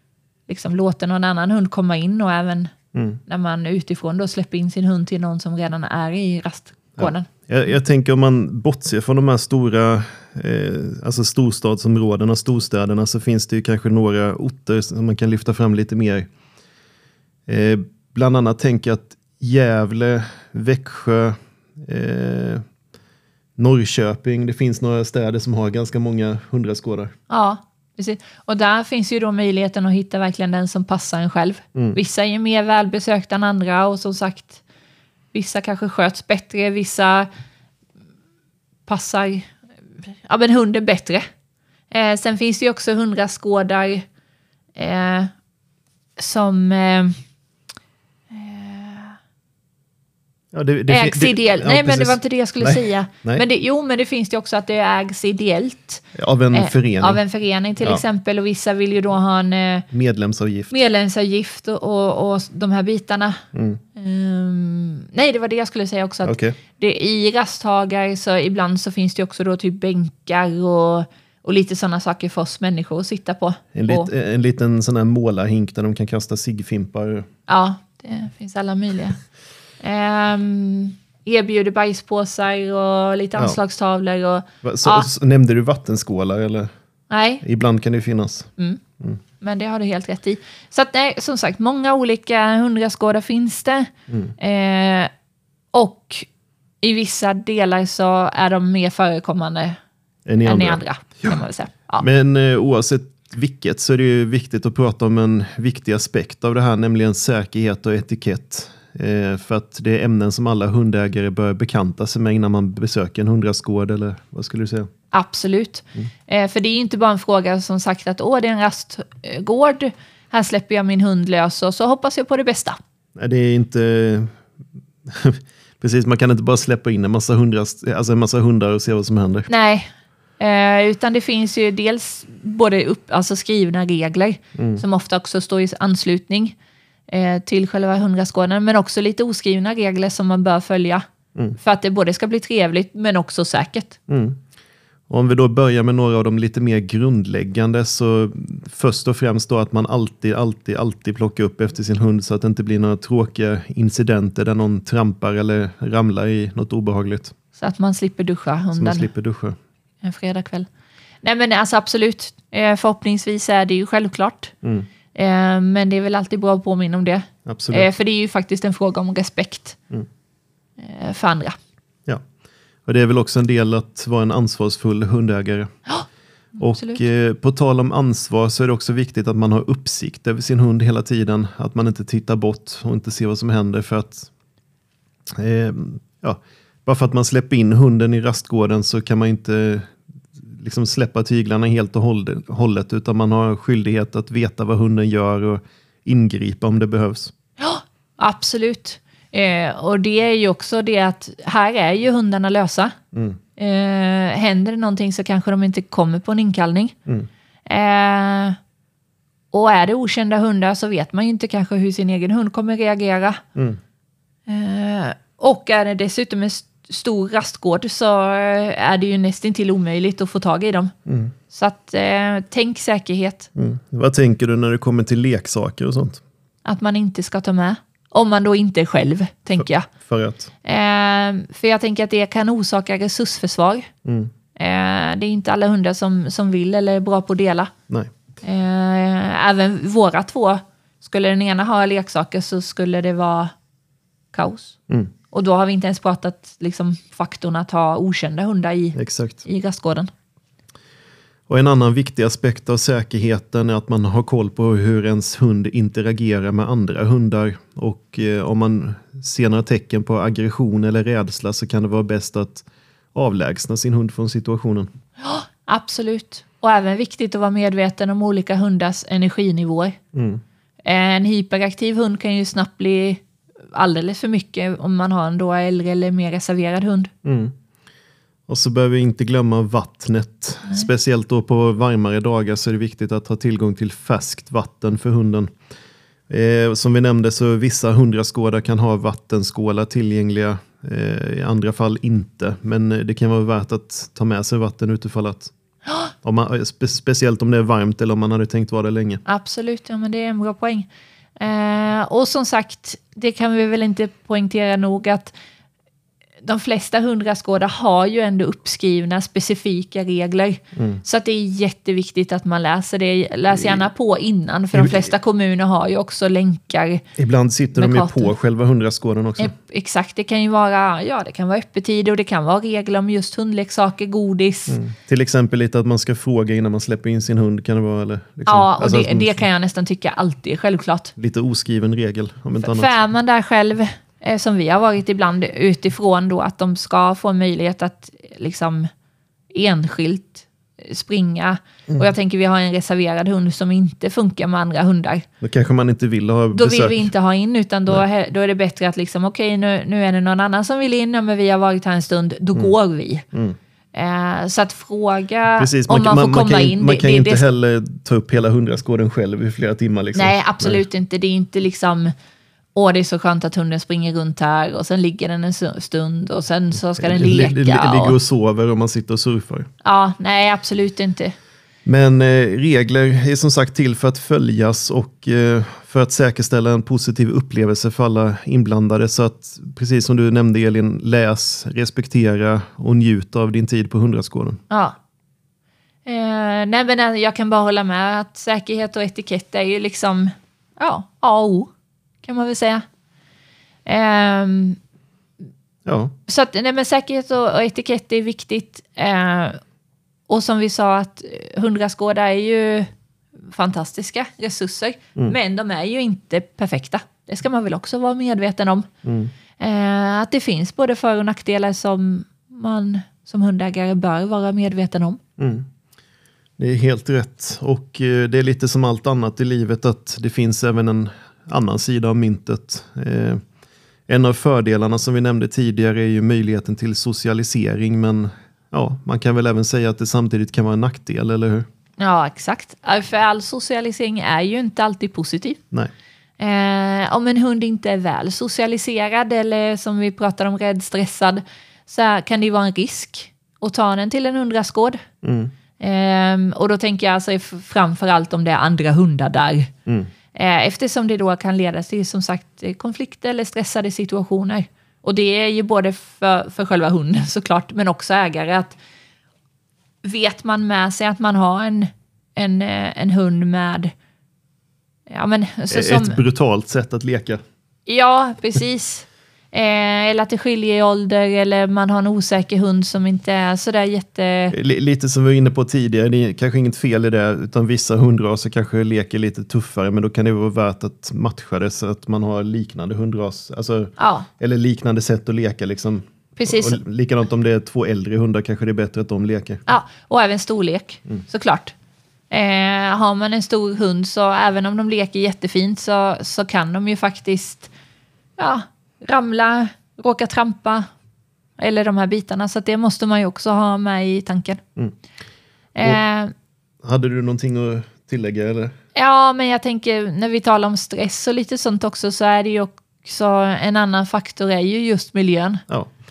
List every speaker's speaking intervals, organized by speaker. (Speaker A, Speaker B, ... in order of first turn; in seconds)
Speaker A: 0.5-2.7, 3.3-7.3, 27.3-34.6, 35.3-37.3, 38.9-41.2, 41.9-44.1, 44.8-45.3, 46.2-47.2, 48.3-49.2, 50.9-59.9, 60.7-63.4, 64.0-74.1, 77.5-79.2, 79.8-85.1, 87.1-87.4, 89.4-95.1, 95.7-96.3, 96.8-99.8, 100.4-102.1, 115.1-122.8, 129.5-136.6, 137.1-141.1, 141.6-144.0, 157.6-159.1, 160.0-160.7, 161.2-164.5, 165.1-169.8, 170.8-171.6, 175.9-177.0, 197.6-202.9, 203.6-206.9, 207.7-208.6, 209.5-213.4, 214.5-220.9, 221.5-223.5, 226.7-229.9, 230.6-233.9, 234.6-237.7, 238.4-243.5, 244.3-244.8, 245.3-250.1, 265.2-270.0, 270.8-277.1, 299.3-305.3, 306.4-317.1, 317.8-318.3, 319.4-324.8, 328.5-331.1, 332.6-338.9, 339.5-345.3, 346.5-353.2, 353.9-357.4, 360.1-362.1, 362.8-368.2, 369.8-371.3, 384.7-385.0, 386.1-391.7, 392.2-392.8, 393.9-394.8, 396.3-399.6, 400.3-402.9, 403.5-408.9, 409.6-415.2, 432.0-435.6, 436.4-445.0, 445.8-449.7, 450.3-458.8, 460.0-463.9, 465.1-466.2, 467.9-474.5, 484.0-484.3, 486.4-486.8, 489.7-491.7, 492.3-497.7, 498.4-500.9, 501.6-504.6, 505.8-506.3, 508.9-515.6
Speaker B: 2.9-3.2, 7.0-16.3, 17.5-22.6, 23.6-27.1, 50.5-53.5, 56.1-57.2, 59.9-60.8, 63.5-63.8, 66.2-66.6, 73.7-77.3, 84.6-86.7, 87.4-88.5, 94.1-94.3, 100.3-101.4, 102.0-114.9, 123.2-124.4, 125.1-129.5, 134.6-134.8, 144.1-144.4, 145.1-157.3, 158.8-159.6, 164.6-164.9, 167.5-167.9, 172.9-175.7, 176.6-184.3, 185.3-189.9, 190.5-197.3, 203.1-203.4, 221.1-221.3, 223.6-226.2, 230.0-230.5, 234.1-234.3, 248.9-249.4, 251.5-264.9, 270.1-270.4, 277.2-277.5, 278.5-285.5, 286.3-295.5, 296.2-299.2, 310.8-311.0, 313.5-313.9, 314.8-315.1, 317.2-319.5, 324.7-329.4, 331.2-332.9, 345.4-347.1, 355.6-360.8, 367.0-369.7, 371.9-384.6, 395.9-396.1, 409.0-409.3, 415.4-415.7, 416.6-423.4, 424.1-431.7, 445.2-445.5, 465.7-467.4, 474.5-489.6, 506.8-508.8